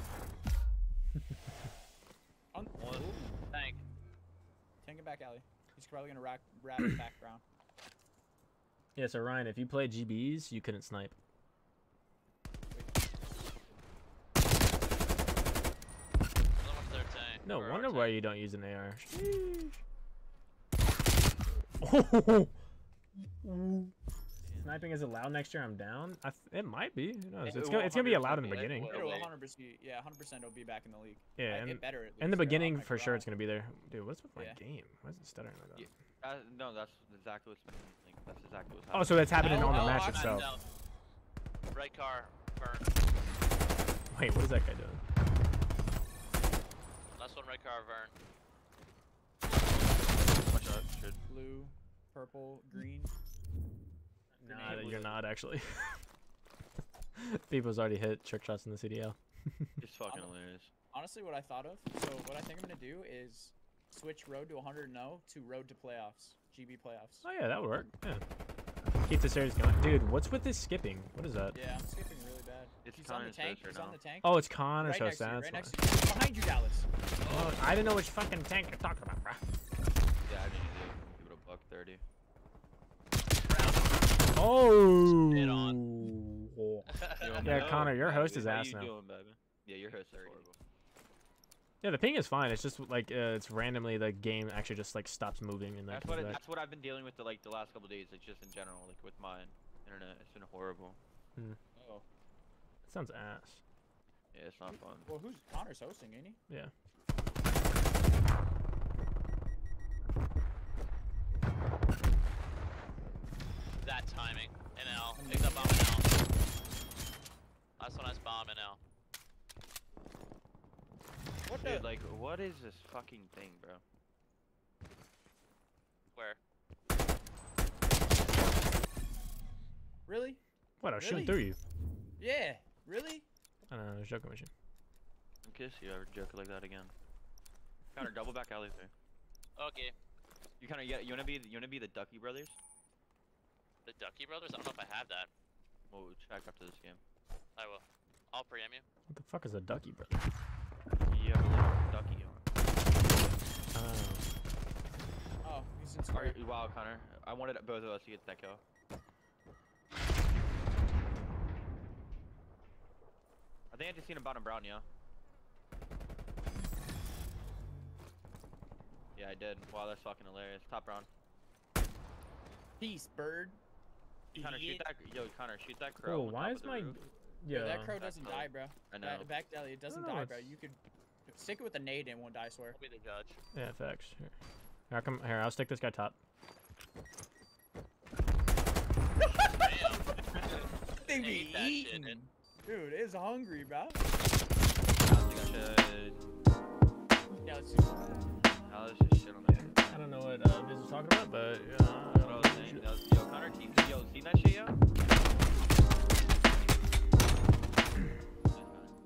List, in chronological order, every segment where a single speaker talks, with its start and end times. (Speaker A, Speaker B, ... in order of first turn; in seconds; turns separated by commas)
Speaker A: 2.5-3.4, Speaker B: 2.8-3.2, Speaker C: 3.5-3.8, Speaker A: 4.8-7.4, Speaker D: 9.0-11.1, Speaker C: 16.6-18.2, Speaker D: 17.4-19.8, Speaker D: 21.8-22.5, Speaker D: 23.4-23.9, Speaker D: 24.5-29.0, Speaker B: 27.4-29.3, Speaker C: 28.2-29.3, Speaker A: 28.9-33.3, Speaker D: 31.4-35.9, Speaker A: 34.4-34.6, Speaker B: 35.8-39.5, Speaker D: 38.9-40.5, Speaker A: 39.4-40.5, Speaker C: 39.4-40.6, Speaker C: 41.7-42.9, Speaker D: 44.1-45.0, Speaker C: 47.1-48.1, Speaker B: 49.9-51.2, Speaker A: 51.2-53.1, Speaker D: 54.4-56.0, Speaker A: 54.5-55.2, Speaker B: 54.6-55.2, Speaker D: 57.2-59.7, Speaker B: 59.8-60.7, Speaker A: 60.1-60.3, Speaker A: 60.9-67.2, Speaker D: 67.2-68.2, Speaker D: 69.0-71.6, Speaker A: 71.5-76.9, Speaker B: 72.8-74.0, Speaker D: 74.2-75.8, Speaker B: 77.2-77.5, Speaker D: 77.2-79.4, Speaker B: 80.2-82.0, Speaker C: 83.4-84.0, Speaker D: 84.3-86.9, Speaker C: 85.2-85.8, Speaker C: 86.9-87.9, Speaker B: 87.2-90.6, Speaker D: 87.4-88.9, Speaker D: 91.8-96.4, Speaker B: 95.9-101.0, Speaker B: 101.8-102.0, Speaker D: 102.9-103.6, Speaker B: 104.3-105.1, Speaker A: 104.7-106.4, Speaker C: 113.8-116.1, Speaker A: 115.2-115.8, Speaker C: 117.8-118.8, Speaker A: 121.5-121.9, Speaker B: 121.6-123.8, Speaker A: 130.1-130.4, Speaker D: 130.8-131.6, Speaker A: 131.0-131.4, Speaker A: 132.2-133.3, Speaker D: 133.7-134.5, Speaker B: 135.4-136.9, Speaker B: 137.9-138.9, Speaker C: 139.6-139.9, Speaker B: 140.6-142.6, Speaker C: 143.8-145.3, Speaker B: 145.9-147.0, Speaker C: 147.6-148.8, Speaker D: 149.1-150.2, Speaker B: 151.1-152.5, Speaker D: 153.7-154.3, Speaker A: 155.4-156.4, Speaker B: 156.1-158.6, Speaker B: 163.7-164.9, Speaker B: 169.2-171.1, Speaker A: 172.8-173.6, Speaker A: 174.3-174.8, Speaker B: 174.4-177.0, Speaker D: 176.0-177.9, Speaker A: 177.5-182.8, Speaker B: 177.8-179.3, Speaker D: 179.9-180.6, Speaker C: 182.7-183.4, Speaker D: 183.5-184.3, Speaker D: 184.9-186.2, Speaker A: 189.2-189.7, Speaker C: 189.5-192.2, Speaker A: 191.0-194.0, Speaker B: 195.0-196.3, Speaker A: 197.4-198.3, Speaker B: 198.7-199.9, Speaker D: 199.6-202.9, Speaker B: 202.2-204.8, Speaker B: 208.5-209.0